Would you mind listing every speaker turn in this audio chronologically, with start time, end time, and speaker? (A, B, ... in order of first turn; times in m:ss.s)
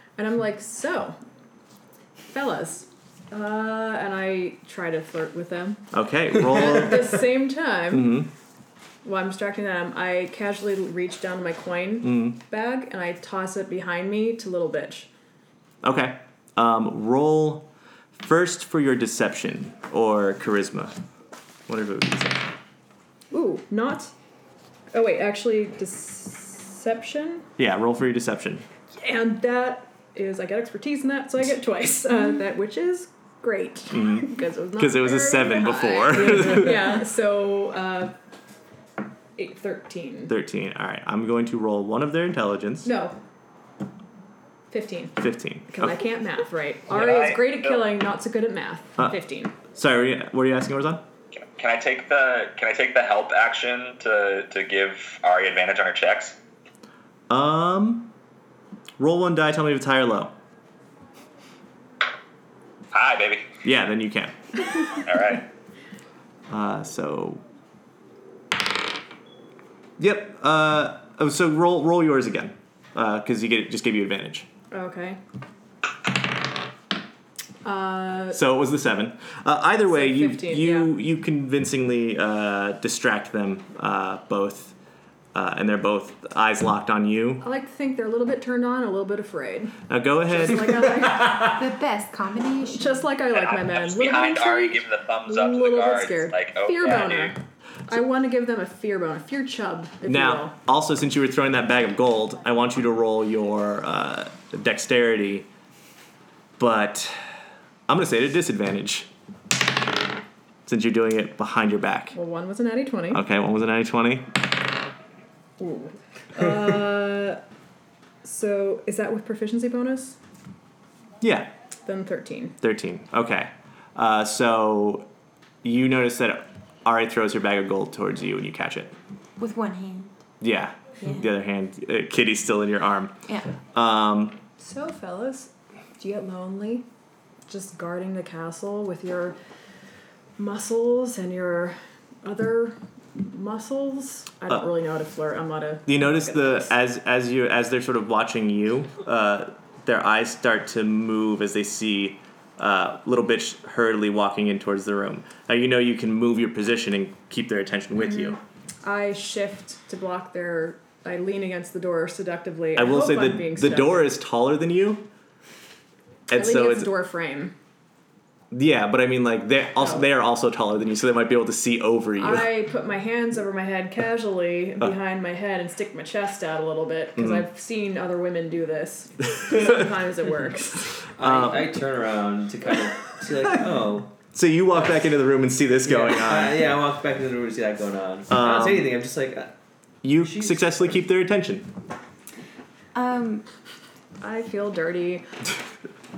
0:00.2-0:01.2 A
0:02.3-0:05.8 A
0:05.9-0:07.2 B
0:06.4-0:08.2 A
0:07.9-0:08.3 B
0:09.0-0:15.1 A
0:12.0-0:12.4 B
0:15.8-0:21.0 B
0:21.7-0:22.5 B
0:23.3-0:24.1 A
0:24.9-0:27.5 A
0:27.6-0:28.6 B
0:28.9-0:38.1 A
0:33.9-0:36.9 B
0:39.4-0:40.3 A
0:40.3-0:42.9 B
0:42.8-0:43.2 A
0:44.7-0:49.5 A
0:45.2-0:46.0 B
0:46.9-0:47.8 C
0:49.7-0:51.0 B
0:51.3-0:56.4 C
0:57.3-0:58.1 B
0:59.0-1:00.3 B
1:02.9-1:03.6 C
1:03.6-1:04.4 B
1:04.9-1:05.4 C
1:06.5-1:07.4 B
1:10.0-1:14.5 B
1:14.7-1:15.2 A
1:17.6-1:18.4 A
1:18.3-1:24.7 B
1:19.9-1:20.9 A
1:25.3-1:27.4 B
1:27.4-1:31.4 A
1:29.9-1:30.9 B
1:31.4-1:33.0 D
1:32.7-1:40.5 A
1:33.3-1:37.3 C
1:40.0-1:45.5 B
1:46.6-1:47.2 B
1:47.9-1:49.1 B
1:50.6-1:52.2 B
1:52.1-1:53.2 A
1:53.1-1:54.3 B
1:55.6-1:57.4 A
1:58.2-2:00.2 A
2:01.2-2:01.5 B
2:01.8-2:02.6 A
2:02.6-2:05.1 B
2:05.6-2:08.9 B
2:09.4-2:10.2 D
2:10.4-2:14.4 B
2:14.6-2:16.9 A
2:17.5-2:19.4 A
2:20.4-2:26.7 A
2:25.8-2:38.4 B
2:37.9-2:44.0 A
2:42.8-2:45.1 B
2:46.3-2:46.9 B
2:46.3-2:47.5 A
2:48.5-2:52.5 B
2:49.8-2:50.0 A
2:52.2-3:01.0 A
2:57.2-2:57.4 B
3:01.2-3:04.2 E
3:01.2-3:01.8 B
3:04.3-3:06.7 B
3:05.8-3:09.5 E
3:08.3-3:09.0 B
3:10.0-3:11.7 B
3:10.2-3:10.9 E
3:12.9-3:13.4 D
3:14.2-3:15.3 A